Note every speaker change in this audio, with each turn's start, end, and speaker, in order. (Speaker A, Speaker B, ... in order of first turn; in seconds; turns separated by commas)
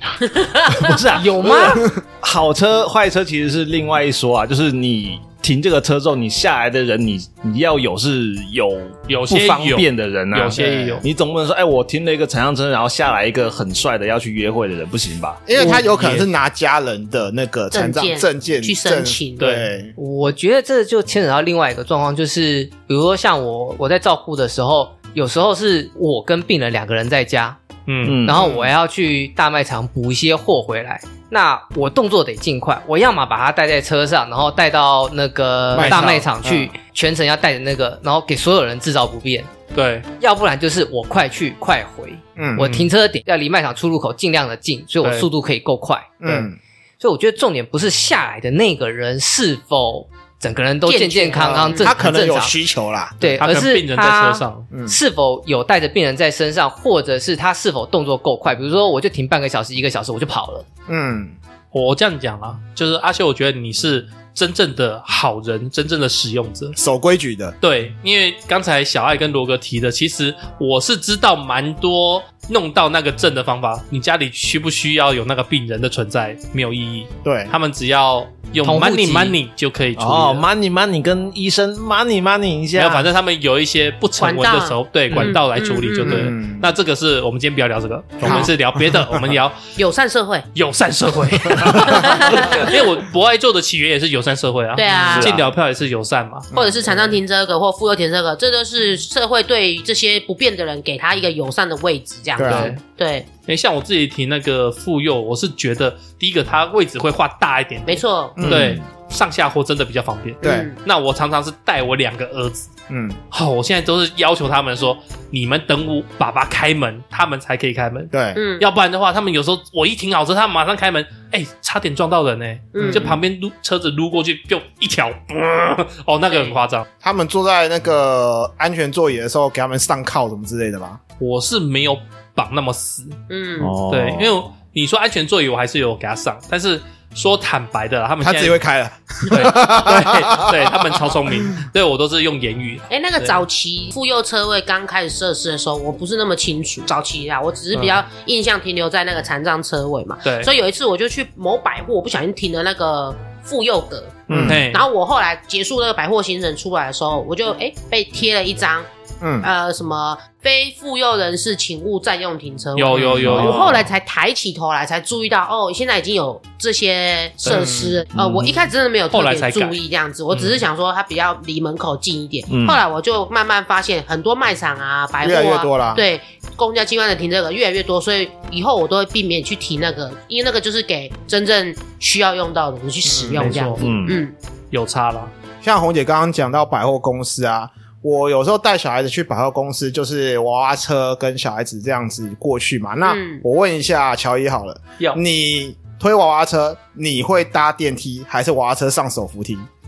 Speaker A: 0.3-0.8, Speaker B: 0.7-15.4, Speaker C: 1.1-1.9, Speaker D: 9.1-11.0, Speaker E: 10.6-11.0, Speaker E: 15.5-19.9, Speaker B: 15.9-16.2, Speaker A: 17.7-19.4, Speaker D: 19.4-19.7, Speaker C: 19.9-27.6, Speaker D: 27.9-28.2, Speaker B: 28.0-28.4, Speaker C: 28.2-39.5, Speaker E: 28.3-28.7, Speaker E: 35.7-36.7, Speaker B: 35.8-36.2, Speaker D: 39.7-40.1, Speaker C: 40.2-46.2, Speaker E: 42.4-42.7, Speaker D: 42.6-42.9, Speaker D: 45.0-45.3, Speaker E: 46.2-46.6, Speaker C: 47.0-52.5, Speaker A: 50.9-51.9, Speaker E: 51.4-53.4, Speaker C: 53.2-60.6, Speaker D: 53.4-54.7, Speaker E: 54.7-55.0, Speaker E: 60.9-61.4, Speaker D: 61.7-66.8, Speaker E: 66.8-67.5, Speaker D: 67.6-80.5, Speaker E: 77.2-77.5, Speaker C: 78.6-79.4, Speaker B: 80.0-83.1, Speaker D: 82.8-89.6, Speaker A: 84.2-86.3, Speaker E: 86.0-86.7, Speaker E: 88.2-88.5, Speaker A: 88.2-88.5, Speaker A: 89.8-90.5, Speaker D: 90.5-96.5, Speaker A: 91.8-92.7, Speaker A: 94.7-95.4, Speaker B: 95.1-95.4, Speaker E: 96.5-97.1, Speaker A: 96.5-103.3, Speaker E: 102.4-102.8, Speaker D: 102.5-102.8, Speaker D: 103.5-112.7, Speaker A: 107.9-108.4, Speaker E: 108.4-108.8, Speaker B: 108.4-108.8, Speaker A: 110.4-110.8, Speaker E: 110.4-110.7, Speaker E: 112.9-113.2, Speaker D: 113.3-126.8, Speaker E: 118.1-118.4, Speaker A: 118.3-118.7, Speaker A: 122.7-123.2, Speaker E: 122.8-123.2, Speaker A: 126.3-126.6, Speaker E: 127.0-131.0, Speaker D: 131.2-133.2, Speaker A: 133.3-133.8, Speaker B: 133.6-134.3, Speaker D: 133.9-138.6, Speaker E: 138.2-141.1, Speaker D: 139.3-143.4, Speaker A: 142.9-158.9, Speaker D: 150.2-150.5, Speaker D: 154.3-154.8, Speaker E: 154.3-154.6, Speaker E: 159.2-159.5, Speaker A: 159.4-184.3, Speaker D: 162.8-163.8, Speaker E: 162.9-163.5, Speaker B: 163.1-163.8, Speaker E: 167.4-168.0, Speaker B: 168.1-168.6, Speaker D: 169.1-169.8, Speaker D: 170.3-170.6, Speaker B: 172.5-172.8, Speaker E: 175.2-176.0, Speaker E: 183.0-183.6, Speaker D: 183.3-183.8, Speaker B: 183.8-184.2, Speaker D: 184.7-185.3, Speaker E: 185.6-199.7, Speaker A: 193.0-193.4